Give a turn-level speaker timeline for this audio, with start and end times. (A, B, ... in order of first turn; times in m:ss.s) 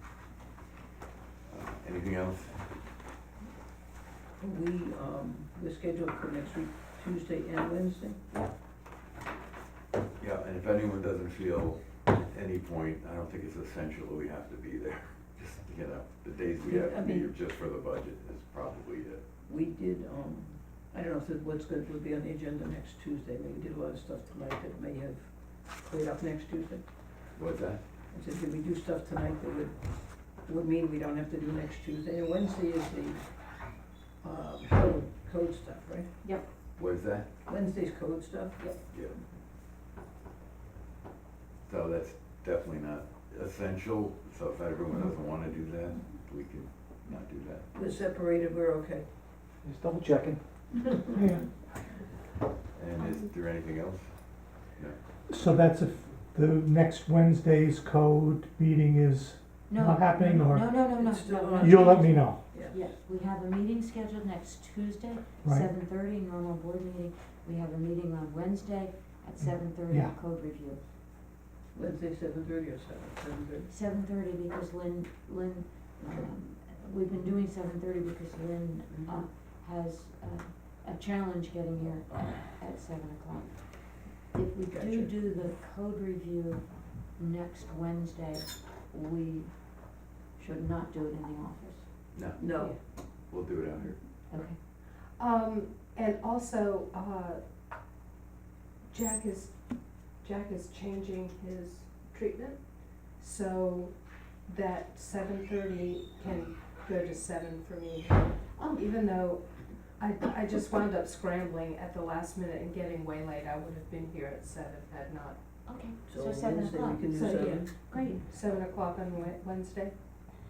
0:01.5-0:02.7 A
0:04.4-0:08.2 B
0:10.2-0:19.2 A
0:16.6-0:17.3 B
0:19.4-0:26.8 B
0:27.3-0:27.8 A
0:28.1-0:33.3 B
0:34.2-0:36.1 B
0:36.8-0:37.3 A
0:37.4-0:38.8 B
0:38.9-0:39.2 A
0:41.6-0:47.6 A
0:47.7-0:49.1 B
0:49.6-0:50.4 C
0:51.1-0:51.5 C
0:52.7-0:54.1 A
0:54.6-0:55.0 A
0:55.3-1:00.7 C
0:59.7-1:10.8 D
1:00.9-1:02.9 B
1:01.6-1:02.4 C
1:05.4-1:05.7 C
1:09.9-1:10.1 C
1:11.7-1:13.7 B
1:13.7-1:32.5 D
1:16.0-1:16.3 B
1:18.9-1:19.2 B
1:24.7-1:25.1 B
1:32.1-1:32.4 A
1:32.4-1:32.8 B
1:32.4-1:32.7 E
1:33.0-1:34.0 A
1:34.3-1:34.6 D
1:35.2-1:37.4 E
1:38.9-1:55.4 E
1:48.6-1:48.8 D
1:55.6-1:58.2 D
1:56.0-1:58.2 B
1:57.2-1:59.9 E